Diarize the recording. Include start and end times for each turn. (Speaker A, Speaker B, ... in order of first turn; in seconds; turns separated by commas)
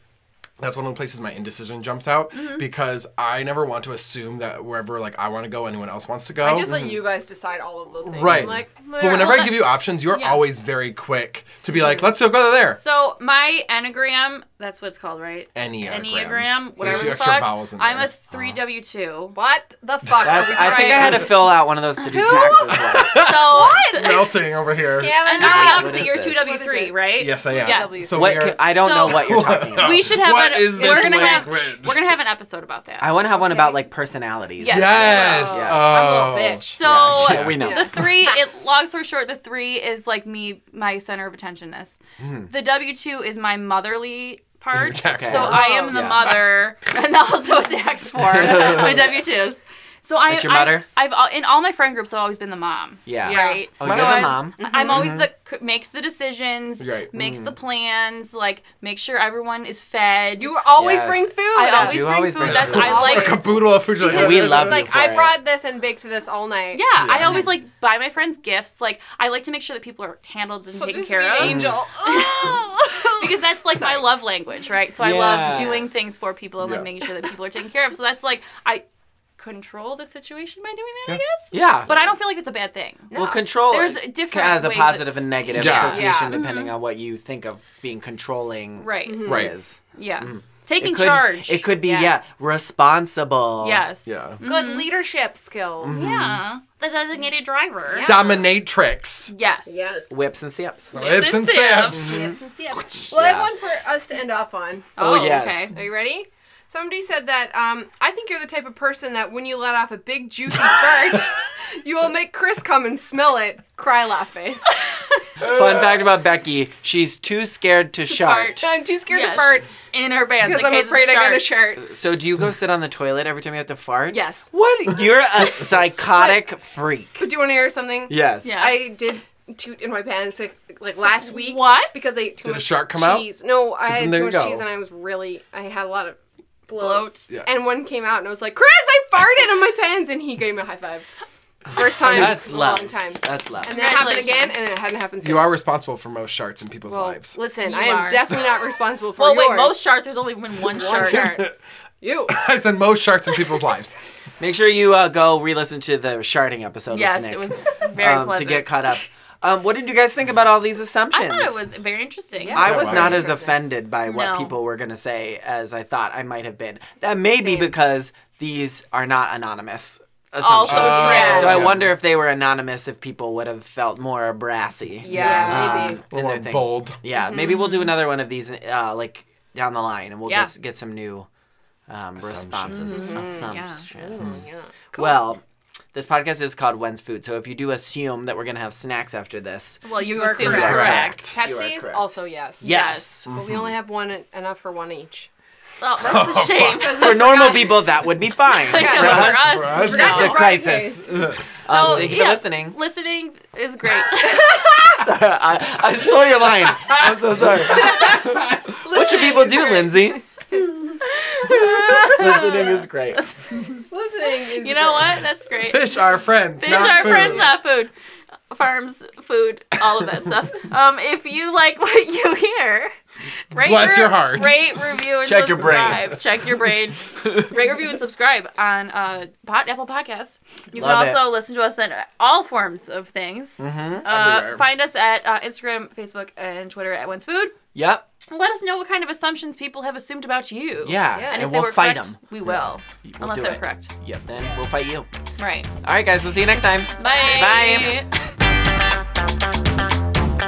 Speaker A: 0.6-6.9, Speaker B: 2.3-2.6, Speaker C: 6.4-9.5, Speaker D: 6.7-7.0, Speaker A: 8.1-12.8, Speaker B: 8.8-10.4, Speaker B: 12.8-19.4, Speaker A: 15.5-18.1, Speaker C: 16.8-17.2, Speaker C: 19.3-21.5, Speaker D: 20.2-23.3, Speaker B: 20.5-21.3, Speaker C: 22.0-24.2, Speaker A: 22.7-25.2, Speaker B: 23.0-24.3, Speaker C: 24.9-28.5, Speaker B: 25.2-28.0, Speaker D: 25.4-26.4, Speaker A: 27.2-32.1, Speaker D: 28.1-30.1, Speaker B: 28.8-33.2, Speaker C: 30.7-31.7, Speaker D: 33.0-36.0, Speaker C: 33.4-33.8, Speaker B: 34.6-60.5, Speaker A: 34.7-38.0, Speaker C: 35.0-36.8, Speaker D: 36.8-38.0, Speaker C: 37.5-38.3, Speaker D: 42.2-42.5, Speaker A: 44.7-46.4, Speaker D: 45.1-46.3, Speaker D: 48.2-49.2, Speaker D: 50.3-50.9, Speaker D: 53.0-55.3, Speaker C: 53.2-53.6, Speaker A: 53.8-54.2, Speaker C: 54.6-55.1, Speaker A: 56.8-57.1, Speaker D: 57.1-57.5, Speaker C: 60.4-66.8, Speaker D: 60.8-63.1, Speaker B: 61.5-63.5, Speaker A: 62.4-64.8, Speaker D: 64.0-65.4, Speaker B: 66.7-78.8, Speaker A: 67.0-67.5, Speaker C: 70.7-74.0, Speaker D: 71.4-71.8, Speaker D: 75.0-75.9, Speaker A: 76.6-76.9, Speaker B: 79.4-86.7, Speaker D: 81.5-81.9, Speaker C: 83.1-83.4, Speaker D: 83.1-93.8, Speaker A: 85.5-86.0, Speaker C: 85.8-86.4, Speaker B: 88.8-89.3, Speaker C: 89.0-89.5, Speaker A: 89.2-89.5, Speaker B: 89.9-91.7, Speaker C: 91.8-92.2, Speaker B: 93.6-94.9, Speaker A: 94.0-94.4, Speaker C: 94.4-96.1, Speaker D: 95.8-96.4, Speaker B: 95.9-98.2, Speaker C: 97.9-98.5, Speaker A: 98.0-99.3, Speaker B: 99.3-100.0, Speaker C: 99.7-100.1, Speaker D: 100.1-100.9, Speaker A: 100.9-102.2, Speaker B: 100.9-102.3, Speaker D: 101.9-102.3, Speaker C: 102.0-104.9, Speaker D: 102.9-103.5, Speaker B: 105.0-105.7, Speaker D: 105.0-105.7, Speaker C: 105.7-114.8, Speaker B: 114.8-115.2, Speaker D: 115.4-118.7, Speaker A: 115.4-116.0, Speaker B: 118.1-121.5, Speaker C: 118.5-119.7, Speaker C: 120.4-121.8, Speaker D: 121.8-127.2, Speaker C: 124.1-124.5, Speaker C: 126.1-126.4, Speaker C: 127.2-141.1, Speaker D: 128.1-128.6, Speaker B: 128.4-129.1, Speaker B: 131.3-132.0, Speaker A: 132.4-133.3, Speaker A: 133.9-134.7, Speaker B: 136.8-137.2, Speaker C: 141.6-145.6, Speaker A: 142.0-142.3, Speaker D: 142.0-143.7, Speaker B: 143.7-144.6, Speaker A: 145.2-147.3, Speaker C: 146.9-149.8, Speaker B: 147.6-148.3, Speaker B: 149.2-151.4, Speaker C: 150.6-151.5, Speaker A: 150.9-151.5, Speaker C: 152.0-152.3, Speaker A: 152.3-154.0, Speaker D: 154.4-161.6, Speaker B: 156.9-158.8, Speaker B: 161.1-162.9, Speaker C: 162.3-163.6, Speaker D: 162.5-181.3, Speaker A: 162.6-163.3, Speaker B: 164.1-164.5, Speaker C: 167.3-167.7, Speaker B: 170.4-171.7, Speaker A: 170.7-171.9, Speaker C: 170.8-171.7, Speaker C: 175.0-176.0, Speaker B: 175.1-176.0, Speaker A: 175.5-177.0, Speaker C: 177.1-177.6, Speaker B: 177.3-178.0, Speaker B: 180.2-180.5, Speaker D: 181.9-184.3, Speaker A: 182.2-182.9, Speaker B: 182.7-183.8, Speaker C: 182.9-185.3, Speaker D: 184.9-192.1, Speaker B: 189.8-191.3, Speaker C: 189.9-195.3, Speaker A: 190.9-191.2, Speaker D: 192.6-193.3, Speaker B: 192.6-193.1, Speaker A: 193.3-193.7, Speaker B: 195.8-200.6, Speaker A: 196.0-197.0, Speaker D: 196.9-202.8, Speaker C: 197.0-197.6, Speaker C: 198.7-201.3, Speaker A: 198.9-200.2, Speaker B: 201.7-204.7, Speaker C: 204.1-204.9, Speaker D: 204.5-210.2, Speaker A: 206.7-208.1, Speaker C: 207.9-208.2, Speaker C: 208.8-210.6, Speaker B: 211.0-213.8, Speaker C: 211.5-212.4, Speaker D: 211.6-213.3, Speaker C: 213.9-215.2, Speaker B: 214.4-216.0, Speaker A: 215.6-217.6, Speaker B: 216.6-217.9, Speaker C: 216.7-217.5, Speaker B: 218.5-222.9, Speaker B: 223.5-237.6, Speaker A: 223.6-224.6, Speaker D: 225.2-226.1, Speaker D: 227.2-227.5, Speaker D: 230.7-231.2, Speaker D: 233.6-234.1, Speaker A: 234.1-234.6, Speaker D: 237.7-238.1, Speaker B: 238.3-243.9, Speaker D: 240.8-245.1, Speaker C: 241.1-241.4, Speaker B: 245.4-245.7, Speaker D: 245.8-248.0, Speaker B: 246.9-248.1, Speaker C: 247.0-247.4